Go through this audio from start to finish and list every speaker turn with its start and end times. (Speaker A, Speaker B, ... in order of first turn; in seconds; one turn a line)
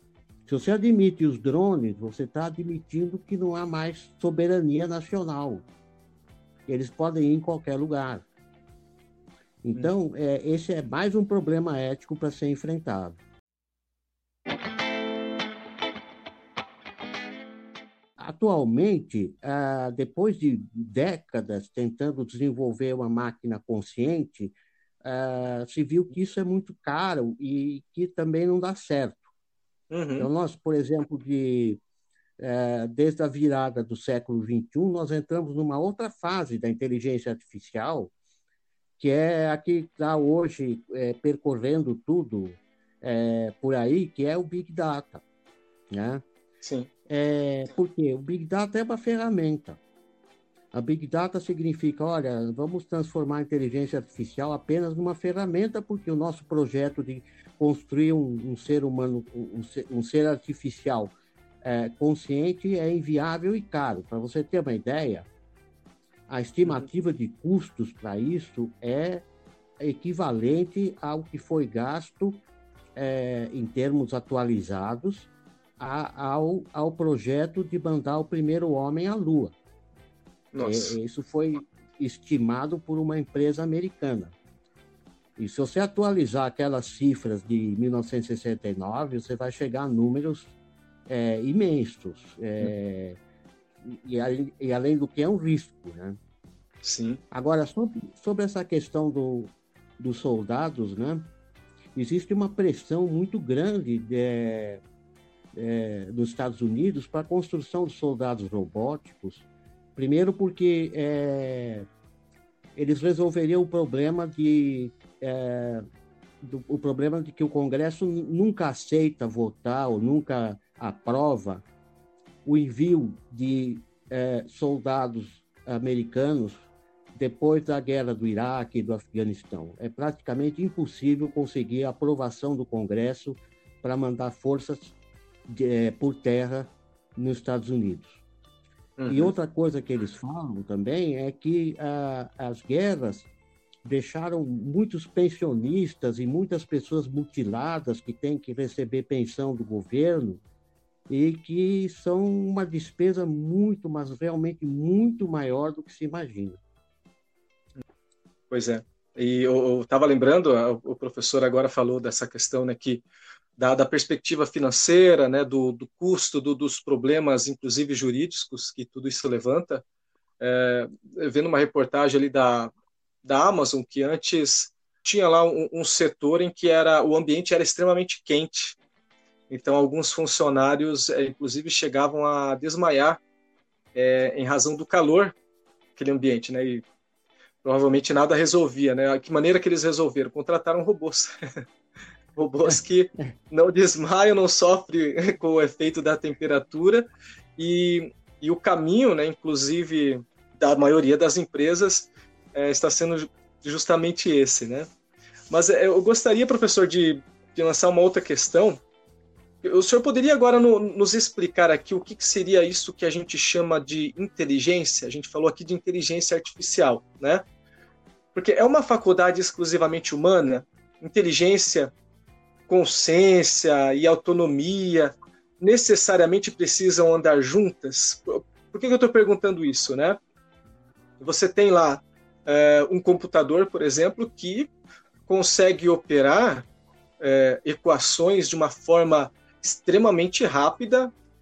Speaker A: 0.5-5.6
Speaker A: 6.7-8.2
Speaker A: 9.6-13.2
Speaker A: 18.2-29.3
Speaker B: 29.9-30.3
Speaker A: 30.2-31.8
Speaker A: 32.4-38.1
Speaker A: 39.0-45.2
Speaker A: 45.9-46.2
Speaker B: 46.6-46.9
Speaker A: 47.1-49.8
Speaker A: 50.7-65.3
Speaker A: 66.3-69.2
Speaker A: 69.8-72.4
Speaker A: 73.0-79.5
Speaker B: 80.5-81.0
Speaker A: 80.6-84.3
Speaker A: 85.4-90.5
Speaker A: 91.1-93.2
Speaker A: 93.8-96.2
Speaker B: 96.8-97.2
Speaker A: 97.3-101.3
Speaker A: 102.0-104.8
Speaker A: 105.5-111.8
Speaker A: 112.8-115.8
Speaker A: 116.4-121.7
Speaker A: 122.5-134.9
Speaker A: 135.5-138.2
Speaker B: 139.0-139.3
Speaker A: 139.1-143.3
Speaker A: 143.8-150.4
Speaker A: 151.1-156.6
Speaker B: 158.5-163.0
Speaker B: 163.6-169.8
Speaker B: 170.4-172.7
Speaker B: 173.2-178.8
Speaker B: 179.5-183.2
Speaker B: 183.9-185.3
Speaker B: 186.0-186.8
Speaker B: 187.6-191.3
Speaker B: 192.3-197.1
Speaker A: 192.7-193.3
Speaker B: 197.6-204.9
Speaker B: 205.5-208.8
Speaker B: 209.6-217.4
Speaker B: 218.3-221.9
Speaker B: 222.7-230.2
Speaker B: 231.2-234.7
Speaker B: 235.3-236.7
Speaker B: 237.2-241.1